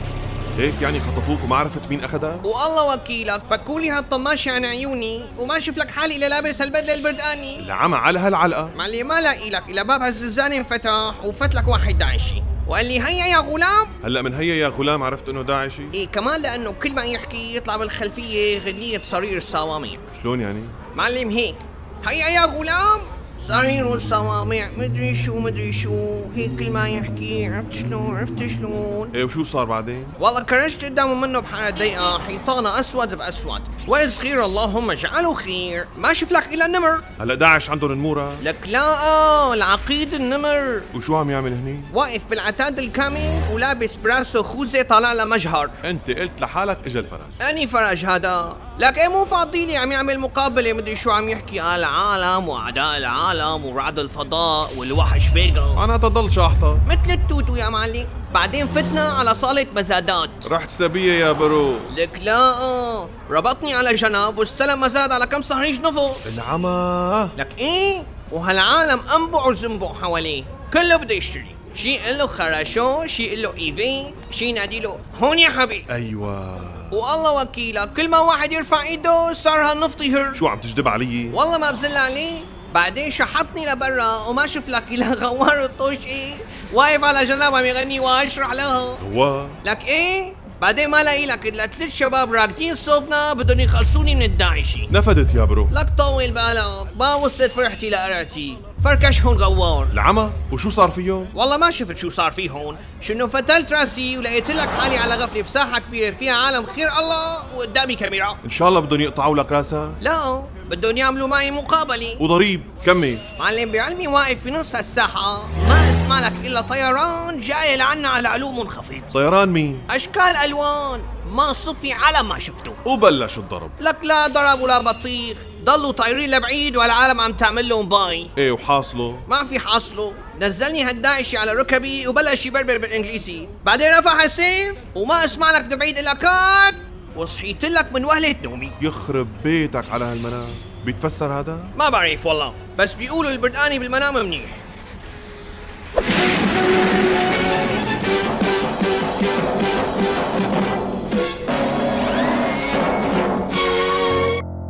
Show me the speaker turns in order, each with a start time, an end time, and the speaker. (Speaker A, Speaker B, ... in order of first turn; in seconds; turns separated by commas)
Speaker A: 0.6-2.4, Speaker B: 2.4-7.7, Speaker A: 7.6-8.7, Speaker B: 8.7-13.9, Speaker A: 14.0-15.9, Speaker B: 15.9-20.0, Speaker A: 20.1-20.8, Speaker B: 20.9-29.1, Speaker A: 29.1-30.1, Speaker B: 30.2-37.0, Speaker A: 37.2-38.4, Speaker B: 38.4-40.9, Speaker A: 40.9-41.9, Speaker B: 41.9-45.8, Speaker A: 45.8-47.4, Speaker B: 47.4-55.8, Speaker A: 55.8-56.8, Speaker B: 56.9-60.4, Speaker A: 60.4-61.9, Speaker B: 61.9-66.2, Speaker A: 66.2-67.3, Speaker B: 67.3-75.9, Speaker A: 75.9-77.0, Speaker B: 76.9-80.4, Speaker A: 80.3-81.4, Speaker B: 81.3-89.0, Speaker A: 89.0-89.6, Speaker B: 89.6-94.9, Speaker A: 94.9-95.7, Speaker B: 95.7-99.9, Speaker A: 99.9-101.3, Speaker B: 101.3-108.4, Speaker A: 108.4-110.0, Speaker B: 110.0-112.2, Speaker A: 112.2-113.2, Speaker B: 113.4-119.1, Speaker A: 119.1-119.8, Speaker B: 119.9-122.8, Speaker A: 122.8-123.7, Speaker B: 123.8-128.3, Speaker A: 128.4-129.2, Speaker B: 129.3-138.8, Speaker A: 138.8-141.7, Speaker B: 141.7-144.6